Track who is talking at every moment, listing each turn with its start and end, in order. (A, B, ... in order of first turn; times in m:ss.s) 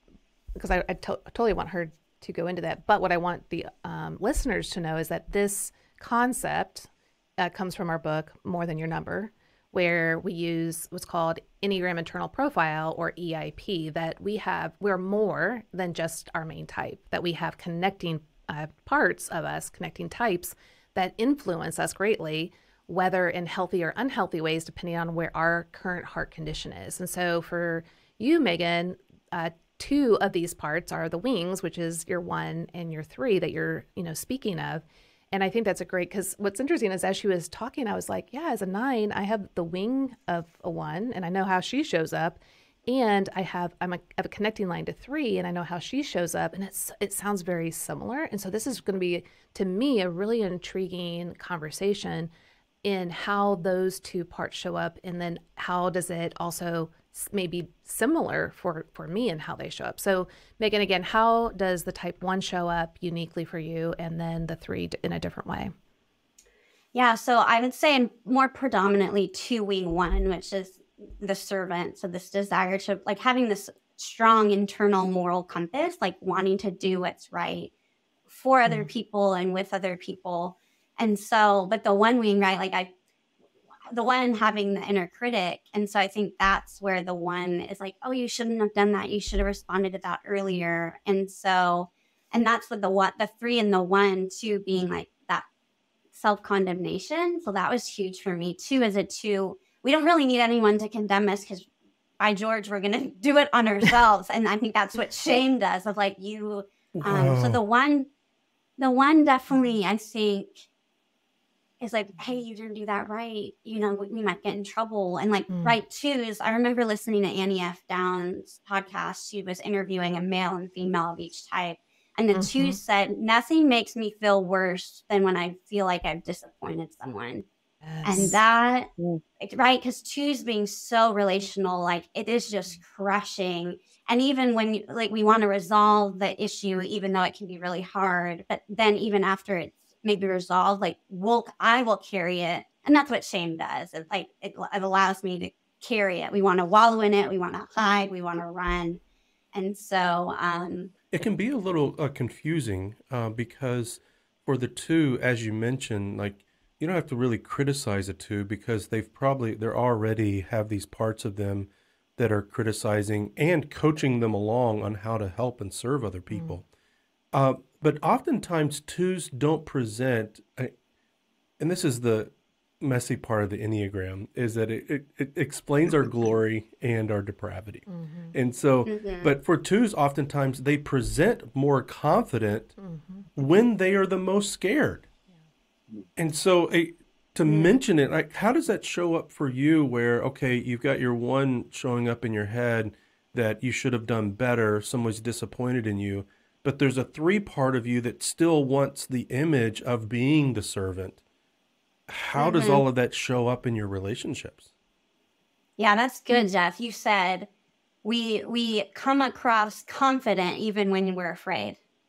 0:00.6-0:52.3 A
0:52.8-1:05.7 A
1:06.9-1:17.7 B
1:18.3-1:22.9 B
1:23.9-1:35.4 B
1:36.1-1:41.7 B
1:42.2-1:48.1 B
1:47.0-1:47.6 C
1:48.8-1:50.6 B
1:51.8-2:07.4 B
1:55.5-1:55.8 A
2:02.3-2:02.8 A
2:07.8-2:08.4 A
2:08.0-2:29.0 B
2:29.5-2:30.9 B
2:31.1-2:46.6 C
2:46.3-2:46.6 A
2:47.3-2:50.7 C
2:51.6-3:02.8 C
2:57.9-2:58.3 A
2:58.8-2:59.4 B
3:02.8-3:03.3 A
3:03.4-3:05.0 C
3:06.2-3:21.2 C
3:22.1-3:24.6 C
3:22.4-3:22.8 B
3:25.8-3:27.5 B
3:28.0-3:31.8 B